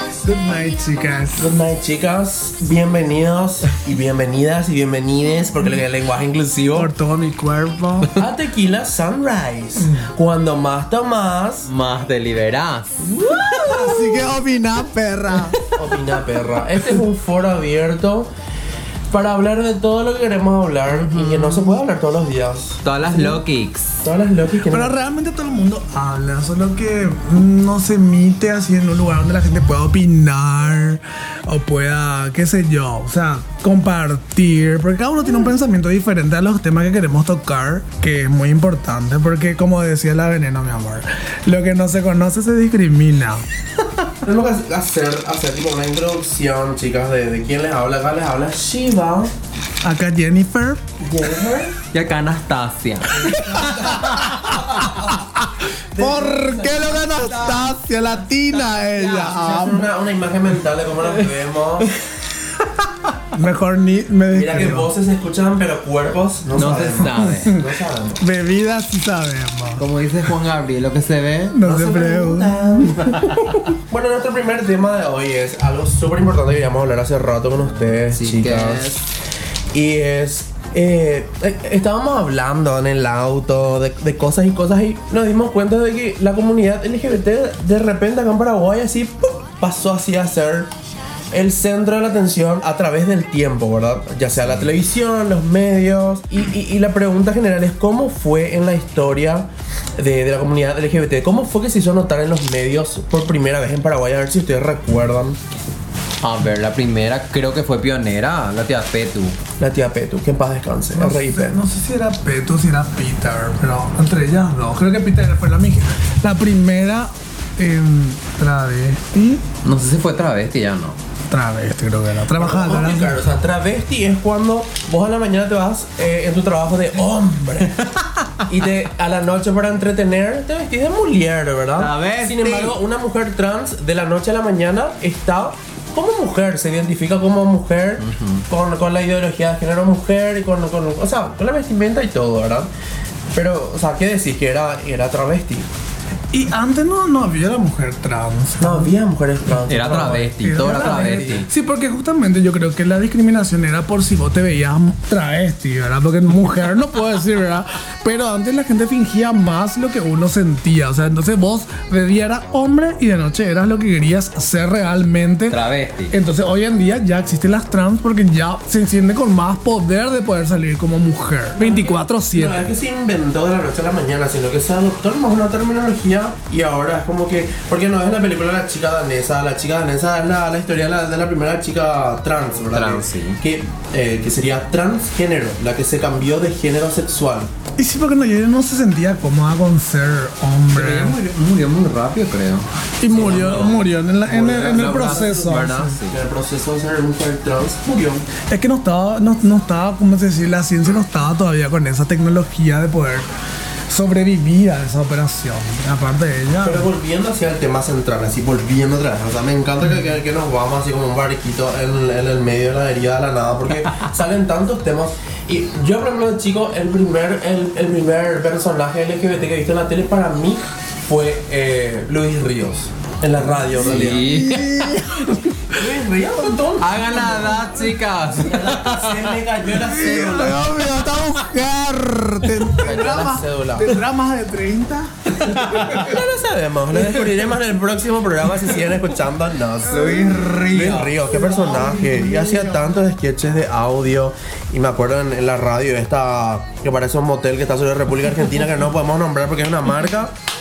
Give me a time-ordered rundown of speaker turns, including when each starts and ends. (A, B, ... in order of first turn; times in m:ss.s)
0:00.2-0:01.5 A
0:01.4-0:06.9 B
0:06.7-0:08.1 A
0:08.2-0:11.7 B
0:11.7-0:14.2 C
0:13.1-0:15.6 A
0:15.7-0:18.3 B
0:19.1-0:23.4 B
0:20.9-0:21.8 C
0:22.8-0:24.0 C
0:24.0-0:25.0 B
0:24.7-0:43.5 A
0:44.2-0:49.3 B
0:49.8-0:50.9 A
0:51.0-0:51.8 B
0:51.9-0:53.4 C
0:53.1-0:55.2 B
0:53.2-0:59.8 A
0:55.9-0:57.8 B
0:58.9-1:01.9 B
1:03.3-1:04.9 A
1:04.3-1:08.2 B
1:06.6-1:07.6 C
1:07.2-1:07.6 A
1:08.2-1:09.8 A
1:09.8-1:13.5 C
1:11.5-1:13.4 A
1:12.3-1:13.0 B
1:13.9-1:19.0 B
1:18.1-1:19.0 C
1:19.7-1:30.7 B
1:31.3-1:45.4 B
1:46.2-1:49.4 C
1:49.6-1:51.6 B
1:51.0-1:59.4 A
1:59.6-2:01.0 C
2:01.3-2:03.2 A
2:02.4-2:07.8 B
2:07.7-2:08.5 C
2:08.5-2:22.7 B
2:11.8-2:12.8 C
2:18.0-2:18.4 C
2:23.3-2:25.7 B
2:26.3-2:28.9 A
2:28.6-2:31.4 B
2:29.7-2:31.5 C
2:29.7-2:45.6 A
2:45.5-2:46.2 C
2:46.1-2:52.6 A
2:51.6-3:07.5 B
3:02.7-3:03.4 C
3:07.8-3:11.2 A
3:10.7-3:16.2 C
3:13.0-3:16.0 A
3:13.1-3:18.3 B
3:18.4-3:23.3 A
3:23.9-3:26.9 A
3:26.6-3:44.3 B
3:43.8-3:45.0 C
3:44.2-3:45.9 A
3:45.7-3:47.6 B
3:46.8-3:49.3 C
3:48.4-3:50.7 B
3:49.7-3:56.2 A
3:52.8-3:54.0 B
3:52.8-3:53.2 C
3:55.6-4:10.3 B
3:59.9-4:01.1 C
4:00.0-4:00.3 A
4:01.2-4:03.0 A